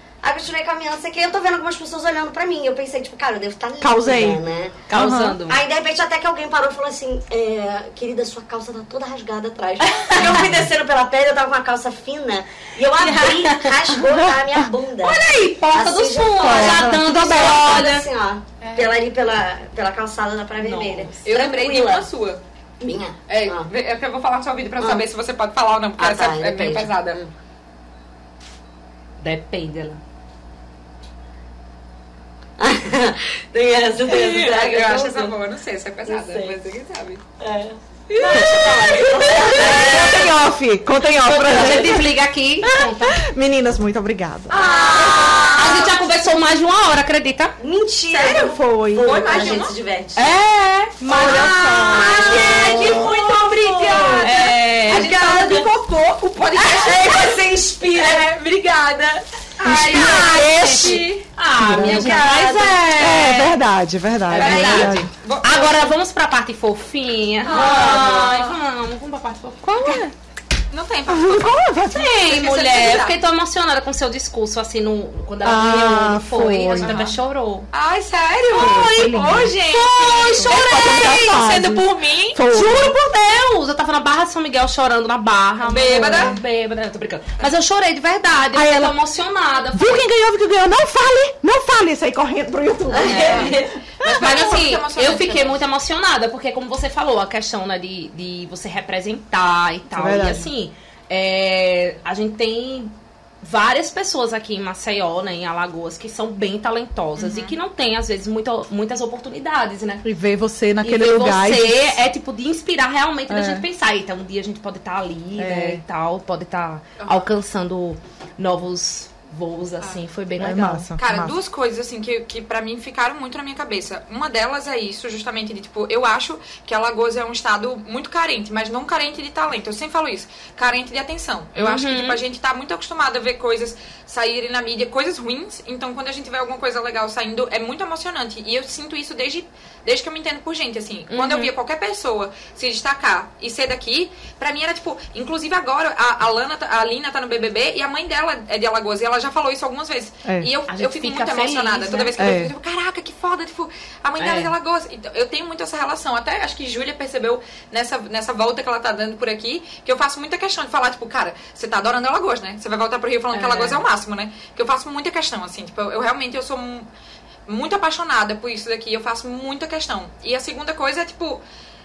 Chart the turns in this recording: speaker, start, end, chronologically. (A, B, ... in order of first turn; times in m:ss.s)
0:00.2-0:04.8 A
0:03.8-0:04.4 B
0:04.9-0:05.6 C
0:04.9-0:05.4 B
0:05.5-0:22.1 A
0:09.9-0:10.5 C
0:13.0-0:14.1 C
0:15.0-0:18.1 C
0:16.4-0:17.1 B
0:18.6-0:19.0 D
0:20.6-0:21.2 C
0:21.2-0:22.4 D
0:22.8-0:23.7 A
0:23.3-0:27.2 D
0:24.8-0:25.1 A
0:26.0-0:27.3 A
0:29.2-0:30.0 C
0:32.6-0:35.4 A
0:34.0-0:37.2 D
0:36.1-0:36.6 A
0:37.4-0:40.4 A
0:38.1-0:39.7 D
0:38.3-0:44.8 B
0:39.3-0:40.4 C
0:41.2-0:43.2 C
0:44.5-0:45.9 A
0:44.5-0:46.1 D
0:45.6-0:47.6 C
0:47.6-0:50.3 A
0:48.1-0:49.8 D
0:48.2-0:49.4 B
0:50.2-0:53.3 C
0:50.9-0:53.1 B
0:51.1-0:55.7 A
0:52.2-0:57.4 D
0:53.8-0:55.2 C
0:56.6-0:58.4 A
0:57.9-1:01.3 D
0:59.6-1:02.3 B
0:59.7-1:03.5 C
1:01.8-1:03.3 D
1:03.0-1:05.1 B
1:04.3-1:10.0 C
1:04.4-1:06.0 D
1:07.4-1:08.6 D
1:07.5-1:08.4 A
1:09.6-1:10.1 B
1:10.7-1:13.2 D
1:11.1-1:12.2 B
1:11.9-1:17.7 C
1:15.4-1:17.0 B
1:16.8-1:17.2 D
1:17.7-1:22.4 D
1:18.5-1:21.3 C
1:18.6-1:19.6 B
1:20.3-1:23.0 B
1:22.4-1:30.1 C
1:25.6-1:26.4 D
1:28.5-1:29.0 B
1:29.7-1:34.3 B
1:32.9-1:33.7 A
1:33.0-1:50.1 C
1:33.3-1:35.6 D
1:39.9-1:40.5 B
1:47.2-1:47.6 D
1:50.0-1:52.0 B
1:50.8-2:00.9 C
1:53.3-1:53.7 B
1:55.4-1:55.8 B
1:57.0-1:57.3 D
2:00.4-2:01.4 B
2:01.0-2:46.9 D
2:11.6-2:12.2 C
2:21.1-2:21.5 C
2:30.2-2:30.5 B
2:30.7-2:32.2 C
2:32.2-2:32.5 B
2:34.2-2:34.5 C
2:43.3-2:43.8 C
2:47.5-2:51.4 D